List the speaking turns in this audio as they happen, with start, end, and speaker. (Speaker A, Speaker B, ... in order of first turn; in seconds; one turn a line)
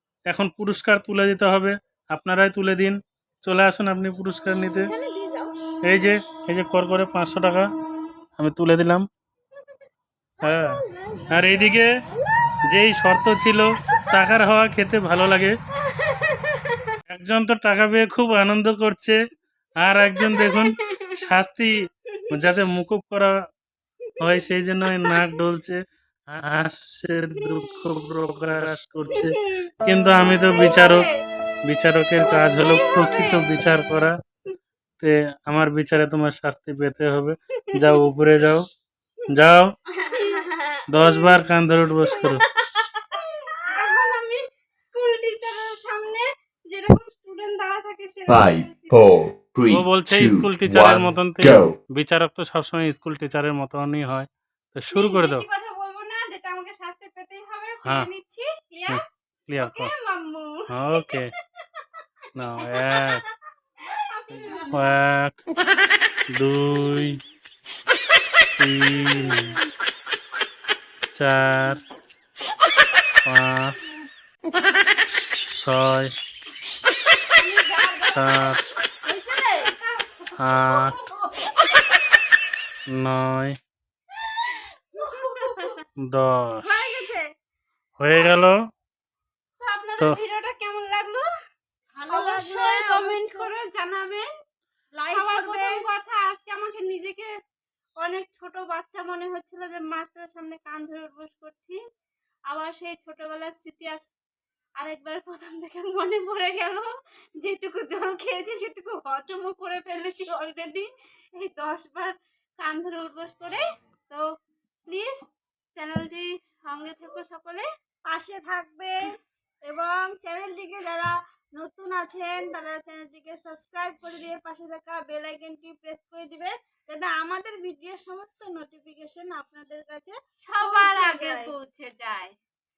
Speaker A: 0.3-4.9
Speaker B: 4.9-5.5
Speaker A: 5.9-7.7
Speaker A: 8.4-9.1
Speaker A: 10.4-10.8
Speaker B: 10.5-11.4
Speaker A: 11.3-11.9
Speaker A: 12.7-15.6
Speaker C: 15.9-16.9
Speaker A: 17.1-19.2
Speaker A: 19.8-21.7
Speaker C: 20.2-21.2
Speaker C: 22.1-22.6
Speaker A: 22.3-23.3
Speaker C: 24.1-24.4
Speaker A: 24.2-25.8
Speaker C: 25.0-25.3
Speaker A: 26.3-31.1
Speaker C: 27.4-27.8
Speaker C: 29.1-29.7
Speaker C: 30.4-31.2
Speaker A: 31.7-34.1
Speaker C: 32.2-33.5
Speaker A: 35.0-38.6
Speaker C: 37.6-38.1
Speaker A: 39.3-39.7
Speaker B: 40.1-40.8
Speaker C: 40.1-40.5
Speaker A: 40.9-42.4
Speaker C: 41.0-41.4
Speaker B: 42.7-43.1
Speaker C: 43.1-49.1
Speaker D: 48.3-51.7
Speaker A: 49.7-55.5
Speaker C: 54.9-59.0
Speaker A: 57.9-58.1
Speaker A: 58.9-59.9
Speaker C: 59.6-61.2
Speaker A: 60.7-61.3
Speaker A: 62.4-63.2
Speaker C: 62.6-63.1
Speaker C: 64.2-64.8
Speaker A: 64.7-65.4
Speaker A: 66.3-67.2
Speaker A: 68.6-69.6
Speaker A: 71.1-71.8
Speaker A: 73.3-73.9
Speaker A: 75.5-76.1
Speaker C: 77.4-78.6
Speaker A: 78.1-78.6
Speaker B: 79.0-79.7
Speaker C: 79.7-81.7
Speaker A: 80.4-81.0
Speaker A: 82.9-83.6
Speaker C: 84.5-85.8
Speaker B: 85.4-85.7
Speaker A: 86.1-86.8
Speaker B: 86.7-87.3
Speaker A: 88.0-88.5
Speaker C: 88.1-88.4
Speaker C: 89.6-91.3
Speaker B: 92.0-93.5
Speaker C: 92.1-94.2
Speaker B: 95.0-95.8
Speaker C: 95.1-97.3
Speaker C: 98.0-101.8
Speaker C: 102.5-104.1
Speaker C: 104.8-106.9
Speaker C: 107.4-114.2
Speaker C: 114.9-117.7
Speaker B: 118.1-119.1
Speaker B: 119.7-131.5
Speaker C: 130.4-132.3